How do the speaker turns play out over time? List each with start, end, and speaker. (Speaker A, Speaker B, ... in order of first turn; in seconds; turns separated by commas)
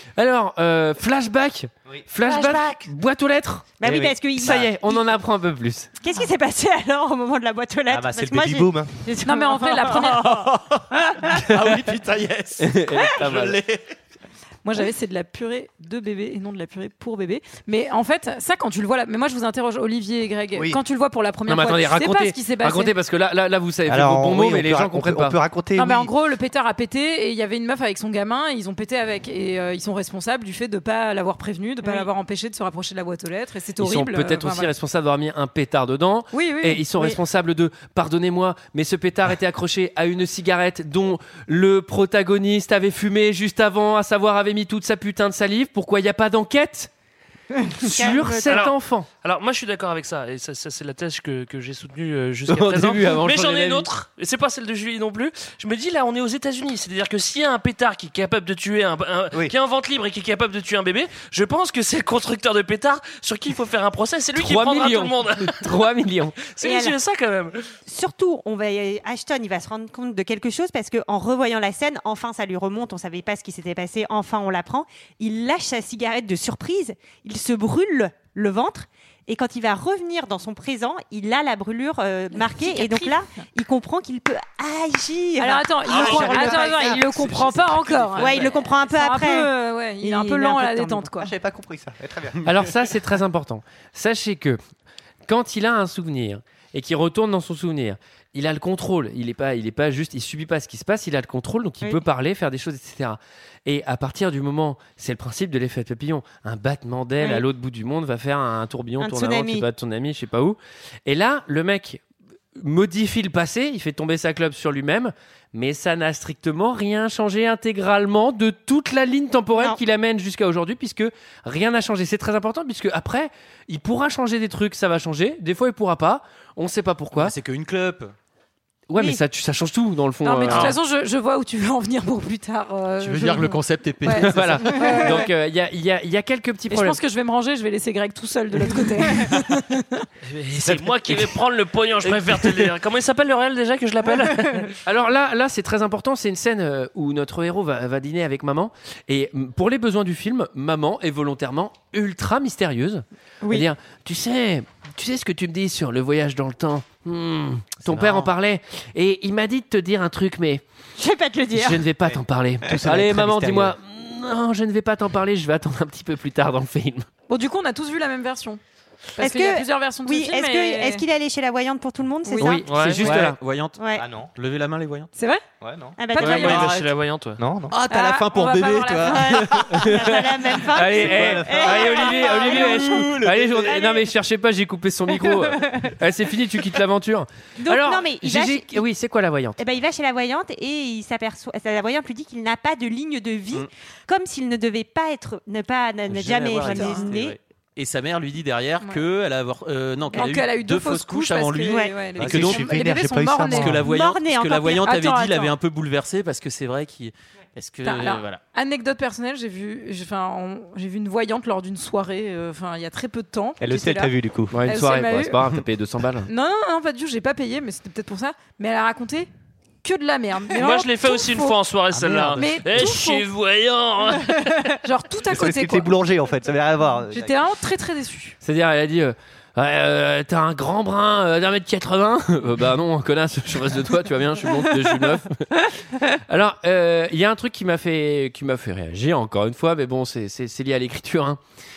Speaker A: 0.2-5.9, Speaker B: 2.3-2.8, Speaker B: 3.8-5.1, Speaker C: 3.9-4.1, Speaker B: 6.0-10.5, Speaker C: 7.9-8.9, Speaker D: 9.2-10.5, Speaker E: 10.3-13.8, Speaker A: 12.6-13.6, Speaker D: 14.6-23.0, Speaker A: 21.5-25.4, Speaker C: 23.9-26.1, Speaker D: 25.8-34.7, Speaker B: 31.8-32.1, Speaker A: 33.8-46.9, Speaker D: 36.3-36.9, Speaker A: 47.8-49.1, Speaker B: 47.8-48.6, Speaker F: 48.4-65.7, Speaker A: 52.5-53.9, Speaker A: 64.3-66.4, Speaker F: 66.5-67.7, Speaker B: 66.6-67.0, Speaker B: 67.9-87.0, Speaker D: 82.3-83.4, Speaker D: 85.4-91.3, Speaker C: 85.9-87.6, Speaker E: 86.0-86.5, Speaker E: 87.1-88.4, Speaker B: 88.2-91.1, Speaker C: 91.2-92.4, Speaker A: 92.5-94.6, Speaker A: 95.3-112.0, Speaker B: 107.2-107.5, Speaker B: 109.0-109.7, Speaker A: 112.6-127.3, Speaker B: 119.5-119.8, Speaker E: 127.2-128.1, Speaker A: 128.9-130.7, Speaker D: 130.2-135.3, Speaker F: 130.5-130.8, Speaker E: 133.0-134.9, Speaker A: 134.2-137.0, Speaker D: 136.7-140.1, Speaker F: 140.3-144.7, Speaker A: 144.8-160.6, Speaker B: 153.4-153.7, Speaker B: 161.0-161.8, Speaker A: 161.5-167.1, Speaker C: 162.6-163.8, Speaker D: 167.3-168.6, Speaker D: 169.2-171.0, Speaker B: 169.2-172.6, Speaker D: 172.2-172.6, Speaker A: 172.4-173.4, Speaker F: 172.7-173.2, Speaker E: 172.8-173.8, Speaker B: 173.8-174.1, Speaker C: 173.9-174.3, Speaker E: 174.3-175.1, Speaker D: 175.2-175.4, Speaker C: 175.6-176.0, Speaker B: 176.0-176.7, Speaker D: 176.1-176.8, Speaker F: 176.2-177.4, Speaker E: 176.3-176.7, Speaker C: 177.4-177.7, Speaker E: 177.7-180.1, Speaker D: 177.9-179.6, Speaker B: 179.1-182.9, Speaker A: 179.7-189.6, Speaker C: 180.8-181.9, Speaker E: 181.4-183.8, Speaker B: 183.7-184.0, Speaker B: 187.6-188.8, Speaker B: 189.6-197.4, Speaker E: 196.1-202.9, Speaker D: 196.6-197.1, Speaker D: 200.1-203.9, Speaker B: 201.7-202.0, Speaker C: 202.2-203.9, Speaker E: 203.4-208.4, Speaker B: 203.8-204.9, Speaker D: 204.8-205.6, Speaker D: 207.8-215.4, Speaker C: 213.6-214.6, Speaker A: 214.5-216.3, Speaker D: 216.3-219.3, Speaker D: 219.8-221.6, Speaker F: 220.5-224.8, Speaker E: 221.9-222.9, Speaker D: 222.4-223.3, Speaker D: 224.8-225.9, Speaker C: 225.3-227.4, Speaker D: 227.1-228.4, Speaker A: 228.4-235.5, Speaker A: 236.1-241.4